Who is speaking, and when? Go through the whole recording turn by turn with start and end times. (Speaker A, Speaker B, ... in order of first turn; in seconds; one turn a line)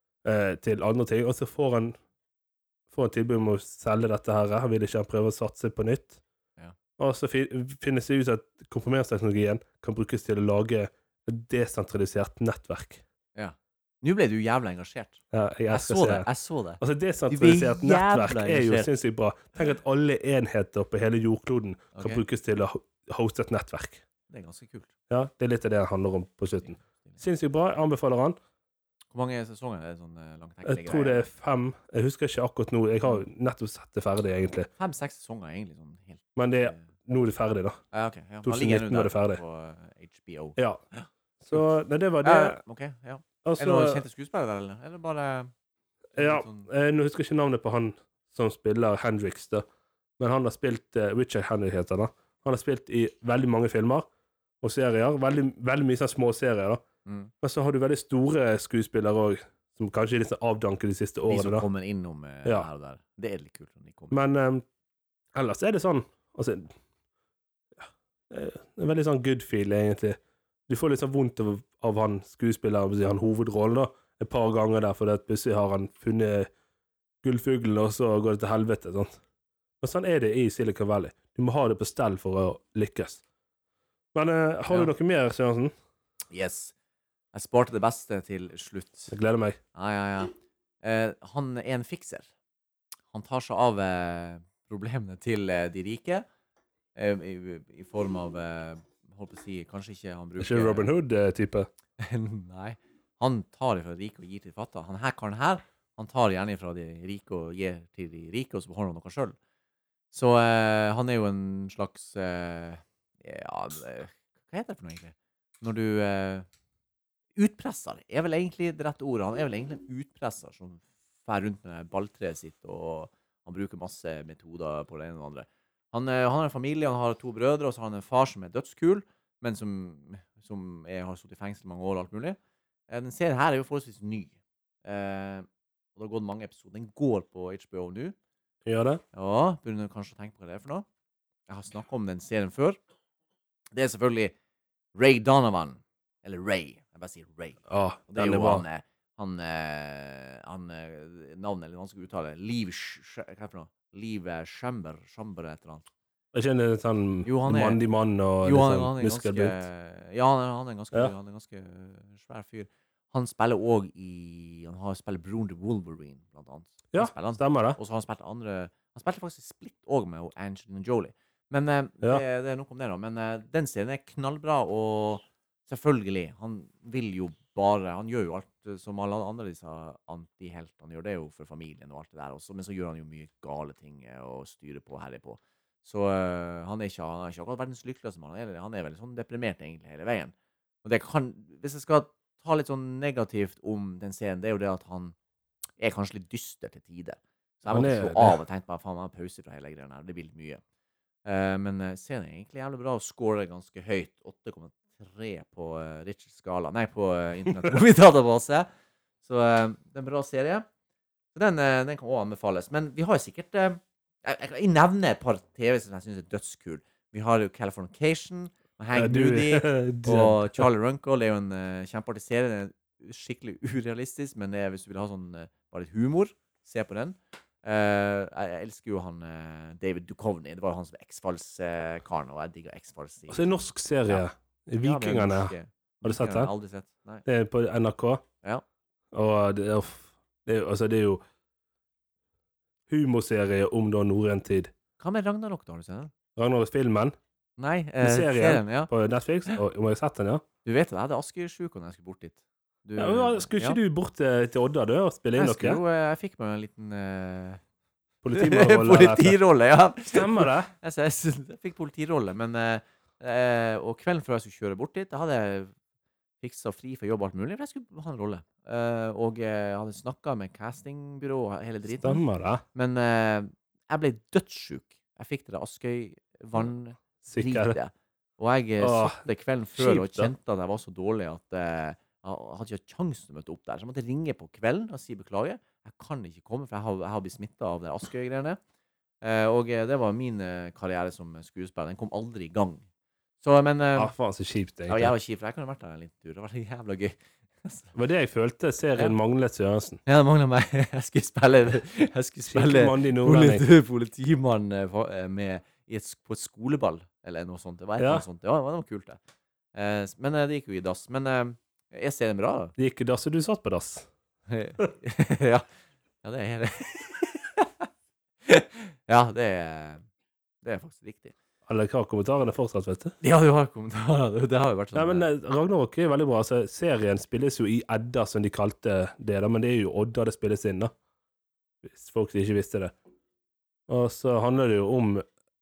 Speaker A: 0.2-1.9
Speaker A: 2.9-6.2
Speaker A: 7.0-13.0
Speaker B: 13.3-18.9
Speaker A: 15.3-16.3
Speaker A: 16.8-24.0
Speaker B: 21.9-22.2
Speaker B: 24.3-24.9
Speaker A: 25.1-28.4
Speaker B: 26.6-27.2
Speaker B: 29.1-31.3
Speaker A: 30.6-34.7
Speaker B: 34.8-36.9
Speaker A: 36.4-37.8
Speaker B: 37.9-41.7
Speaker A: 38.4-39.4
Speaker A: 41.4-42.6
Speaker B: 42.2-45.5
Speaker A: 43.4-44.0
Speaker B: 46.1-46.7
Speaker A: 46.1-49.6
Speaker A: 50.2-54.1
Speaker A: 54.6-56.8
Speaker B: 57.1-57.3
Speaker A: 57.4-61.6
Speaker B: 61.3-64.2
Speaker A: 64.1-64.6
Speaker A: 65.3-66.7
Speaker A: 67.8-76.5
Speaker A: 77.2-79.2
Speaker A: 79.8-83.2
Speaker A: 84.1-85.7
Speaker B: 86.3-86.7
Speaker B: 87.3-89.1
Speaker A: 89.1-89.6
Speaker B: 89.7-90.3
Speaker B: 90.8-92.3
Speaker B: 93.1-96.2
Speaker B: 97.0-100.9
Speaker A: 100.4-101.7
Speaker B: 102.0-109.3
Speaker B: 110.1-116.5
Speaker B: 117.4-132.4
Speaker B: 132.9-134.3
Speaker B: 134.8-138.1
Speaker A: 138.7-139.0
Speaker B: 139.1-140.9
Speaker B: 141.5-142.8
Speaker B: 143.7-144.3
Speaker B: 144.9-155.9
Speaker A: 147.7-148.6
Speaker A: 156.3-159.6
Speaker B: 157.2-157.8
Speaker B: 158.4-195.1
Speaker A: 166.9-167.8
Speaker B: 195.8-200.6
Speaker A: 197.7-198.4
Speaker B: 201.2-208.7
Speaker B: 209.2-210.7
Speaker B: 211.3-233.5
Speaker A: 218.9-220.7
Speaker A: 233.3-236.5
Speaker B: 234.8-237.2
Speaker A: 237.2-238.2
Speaker A: 239.1-241.2
Speaker A: 242.9-244.7
Speaker B: 245.0-246.1
Speaker A: 246.4-247.1
Speaker B: 247.6-248.9
Speaker A: 248.0-250.4
Speaker B: 250.6-253.8
Speaker A: 253.0-255.8
Speaker B: 255.3-257.6
Speaker A: 258.2-259.4
Speaker B: 258.3-265.7
Speaker A: 260.1-260.7
Speaker B: 266.4-272.2
Speaker A: 271.9-272.6
Speaker B: 272.7-288.6
Speaker A: 277.2-277.8
Speaker A: 278.8-279.2
Speaker A: 279.8-280.3
Speaker B: 289.2-292.8
Speaker B: 293.4-294.1
Speaker A: 294.0-295.1
Speaker B: 294.9-297.9
Speaker A: 297.9-300.0
Speaker B: 300.1-309.2
Speaker A: 302.5-303.6
Speaker A: 308.0-308.2
Speaker B: 309.7-312.7
Speaker A: 312.8-314.1
Speaker B: 314.5-315.6
Speaker B: 316.2-317.9
Speaker B: 318.4-320.0
Speaker B: 320.6-321.4
Speaker A: 321.7-323.1
Speaker B: 323.2-325.3
Speaker A: 324.9-330.9
Speaker A: 331.8-332.9
Speaker A: 333.9-335.2